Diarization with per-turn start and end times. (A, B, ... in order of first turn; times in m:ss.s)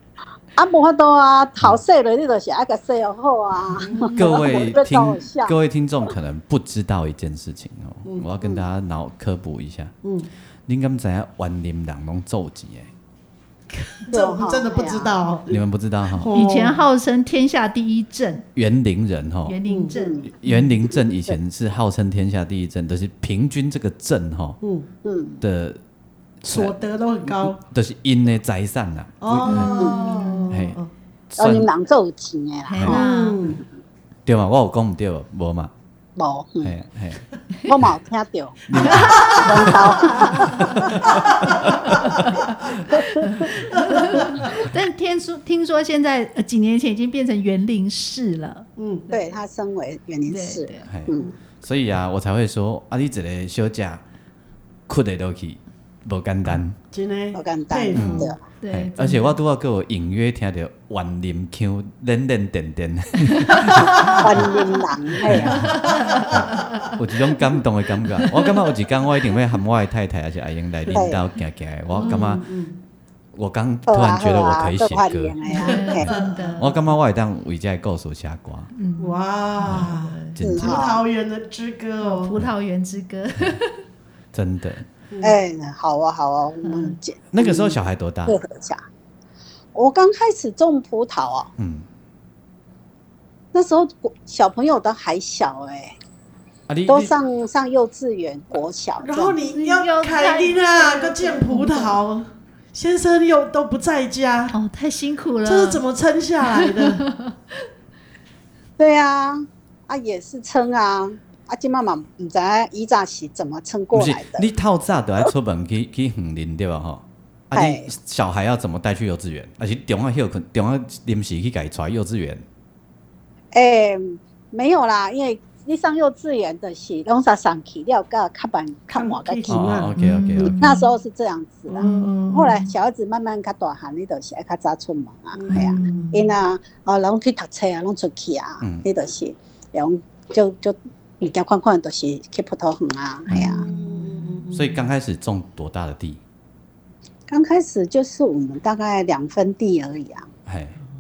0:00.6-0:05.6 A
0:03.8-0:04.5 B
0:04.2-0:09.9 C
0:10.0-0:10.3 B
0:10.7-0:12.9 C
0:13.7-0:15.6 B
0:14.1-0:15.2 A
0:15.5-0:16.3 C
0:16.1-0:16.8 B
0:16.3-0:18.4 D
0:18.6-0:19.6 C
0:19.5-0:20.7 D
0:19.7-0:20.0 B
0:19.9-0:20.3 A
0:20.4-0:24.6 C
0:24.6-0:24.9 B
0:25.0-0:25.4 A
0:25.4-0:25.8 C
0:26.4-0:29.8 C
0:26.5-0:27.6 B
0:29.2-0:30.9 B
0:29.5-0:30.6 D
0:29.8-0:30.0 A
0:30.5-0:31.7 C
0:31.4-0:33.0 A
0:32.7-0:33.5 D
0:32.9-0:33.6 B
0:34.3-0:35.7 C
0:36.2-0:36.8 A
0:36.6-0:37.2 C
0:37.7-0:41.2 A
0:38.7-0:42.8 C
0:38.8-0:39.4 D
0:38.9-0:39.5 B
0:40.0-0:40.7 D
0:41.0-0:42.0 B
0:43.2-0:48.7 D
0:43.7-0:44.4 B
0:48.8-0:49.1 B
0:49.1-0:51.3 A
0:50.3-0:50.9 D
0:50.9-0:54.0 C
0:54.9-0:56.8 C
0:56.9-0:58.3 B
0:57.3-0:58.4 A
0:58.0-1:04.6 C
0:58.0-0:59.4 D
1:03.5-1:04.1 D
1:04.0-1:05.7 A
1:04.1-1:04.5 B
1:05.2-1:12.5 C
1:05.5-1:06.9 D
1:05.7-1:06.6 B
1:10.9-1:11.2 A
1:12.0-1:12.4 D
1:12.0-1:12.8 B
1:13.3-1:15.4 C
1:13.9-1:16.1 A
1:15.5-1:16.9 D
1:15.5-1:16.6 B
1:16.6-1:18.7 C
1:18.7-1:20.4 D
1:19.0-1:22.4 B
1:19.6-1:20.8 C
1:20.4-1:21.0 A
1:22.0-1:23.8 D
1:24.3-1:24.9 C
1:25.1-1:25.4 B
1:25.2-1:28.8 A
1:26.6-1:27.0 D
1:27.3-1:28.4 C
1:29.8-1:31.5 A
1:31.6-1:31.9 C
1:33.5-1:36.0 A
1:36.7-1:37.1 C
1:36.9-1:39.4 A
1:39.0-1:44.6 B
1:39.5-1:42.0 D
1:44.5-1:45.8 D
1:45.4-1:47.0 B
1:46.5-1:47.4 D
1:48.8-1:54.5 A
1:53.9-2:02.4 C
1:57.5-1:57.9 A
2:03.5-2:09.7 A
2:08.9-2:09.9 B
2:09.5-2:10.8 C
2:10.0-2:10.9 D
2:10.4-2:23.6 A
2:11.7-2:12.2 B
2:11.7-2:12.7 D
2:15.4-2:15.8 B
2:15.5-2:16.3 D
2:18.6-2:18.9 C
2:23.3-2:24.4 D
2:23.4-2:24.8 B
2:24.5-2:26.2 C
2:27.3-2:30.3 A
2:30.5-2:30.8 C